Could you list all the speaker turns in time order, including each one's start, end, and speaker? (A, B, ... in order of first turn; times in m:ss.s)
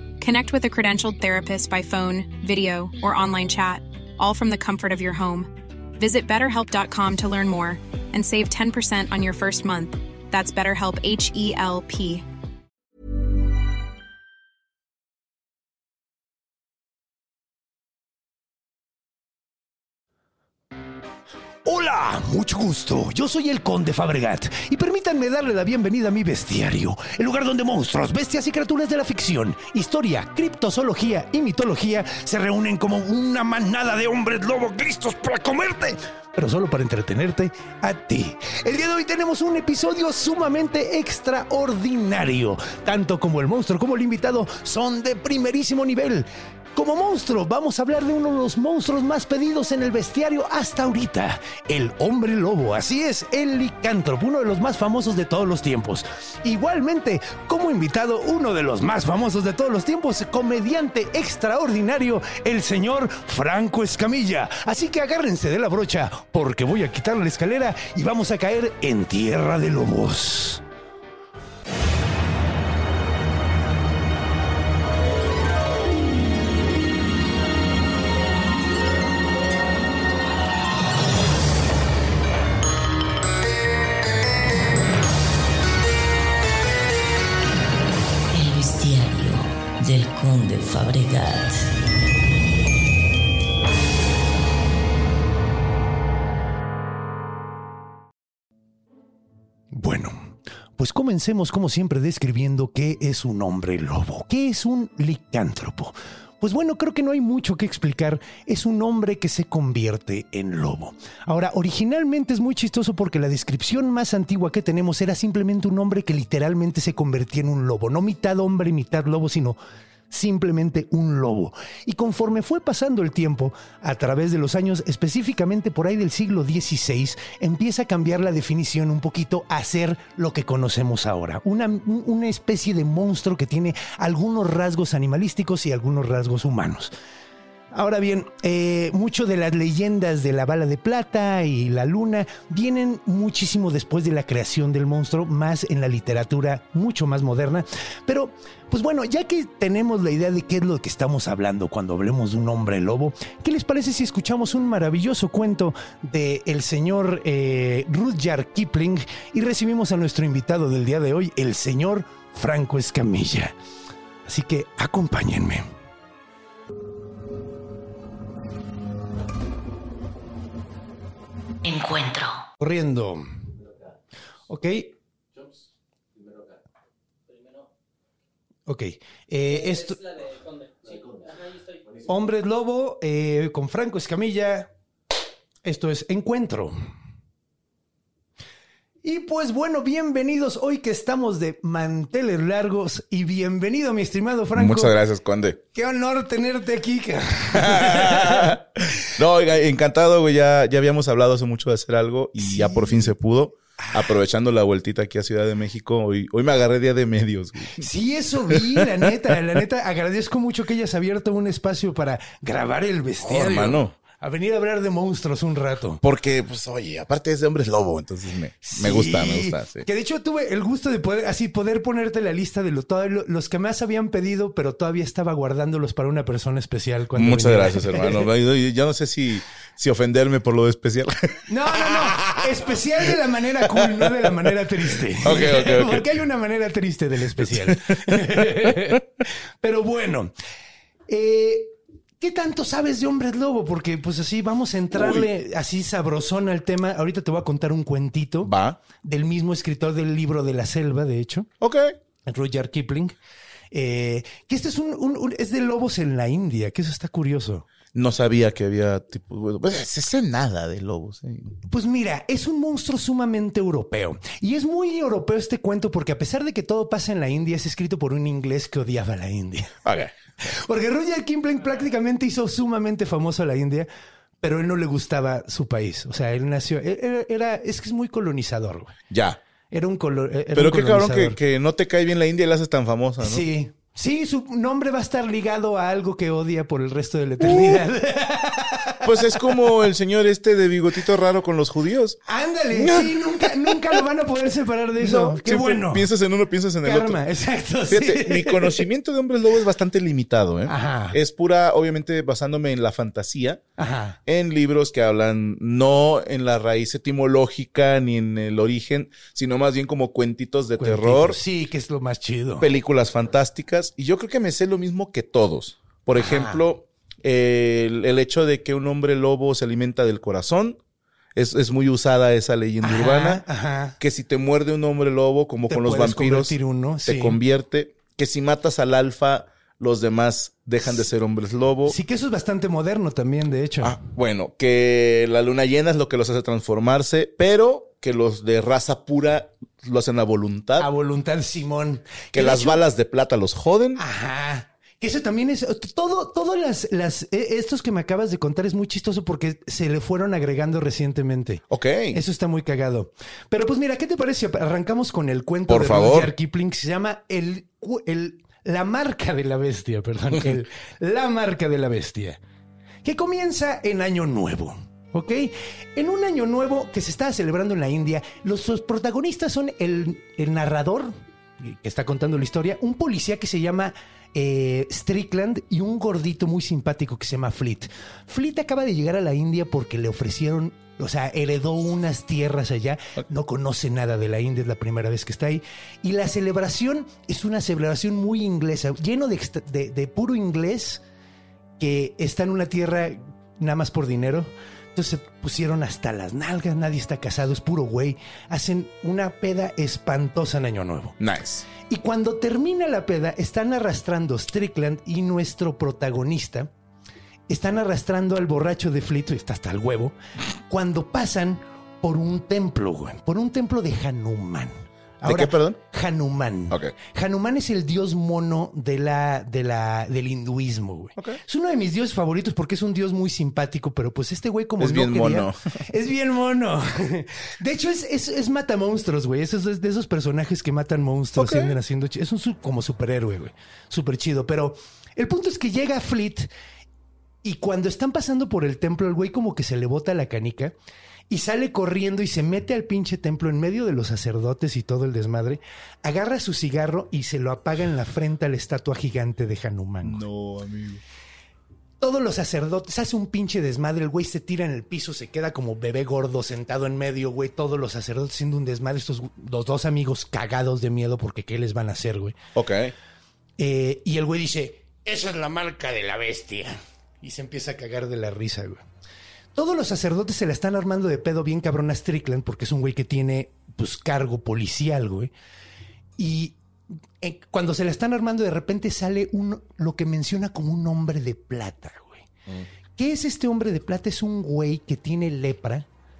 0:00.2-0:12.2 A
0:21.6-1:10.6 B
1:28.3-1:31.7 C
1:39.7-1:59.6 B
2:00.1-2:16.9 B
2:17.7-2:43.5 B
2:44.2-2:45.6 B
2:51.6-2:52.5 C
2:52.6-2:53.2 B
2:54.5-2:54.9 B
2:58.7-3:00.4 B
3:01.9-3:04.7 B
3:05.6-3:06.7 B
3:09.0-3:14.9 B
3:14.5-3:15.6 D
3:15.7-3:18.6 B
3:17.5-3:27.9 D
3:22.4-3:23.1 B
3:23.8-3:24.1 B
3:27.8-3:36.0 B
3:28.5-3:29.0 D
3:33.2-3:34.0 D
3:36.0-3:39.9 D
3:38.6-3:48.3 B
3:47.1-3:52.5 D
3:51.5-3:59.0 B
3:53.7-3:54.5 D
3:55.2-3:56.0 D
3:57.4-3:59.0 D
3:59.6-4:00.3 B
4:01.1-4:11.5 B
4:04.9-4:05.2 D
4:08.4-4:08.8 D
4:11.6-4:11.9 D
4:12.2-4:13.2 B
4:13.7-4:17.6 B
4:17.9-4:21.6 D
4:21.6-4:29.8 B
4:29.8-4:30.1 D
4:30.4-4:33.9 B
4:34.4-4:39.0 B
4:39.1-4:39.4 D
4:39.7-4:41.4 B
4:40.5-4:43.4 D
4:43.2-4:49.5 B
4:47.4-4:47.8 D
4:49.0-4:52.2 D
4:52.2-4:56.1 B
4:52.7-4:54.0 D
4:55.0-4:57.2 D
4:56.8-4:58.8 B
4:57.9-5:03.6 D
5:00.7-5:01.2 B
5:03.8-5:04.2 B
5:04.2-5:11.4 D
5:10.8-5:12.7 B
5:12.6-5:20.8 D
5:16.2-5:16.6 B
5:21.3-5:23.4 D
5:22.8-5:24.0 B
5:24.0-5:32.0 D
5:25.7-5:27.4 B
5:31.8-5:34.0 B
5:33.8-5:40.9 D
5:40.8-5:42.8 B
5:42.3-5:44.0 D
5:44.0-6:02.4 B
5:51.7-5:52.2 D
5:55.7-5:56.3 D
6:03.0-6:31.0 B
6:31.8-6:41.2 B
6:41.2-6:41.6 D
6:41.7-6:46.7 B
6:47.5-6:50.1 B
6:50.7-7:16.5 B
6:55.2-6:55.8 D
7:04.8-7:05.8 D
7:11.4-7:11.8 D
7:17.4-7:20.7 B
7:21.3-7:30.2 B
7:30.0-7:31.0 D
7:32.0-7:42.4 B
7:42.5-7:42.9 D
7:43.6-7:48.8 B
7:49.5-7:55.3 B
7:56.2-8:02.3 B
8:03.0-8:05.9 B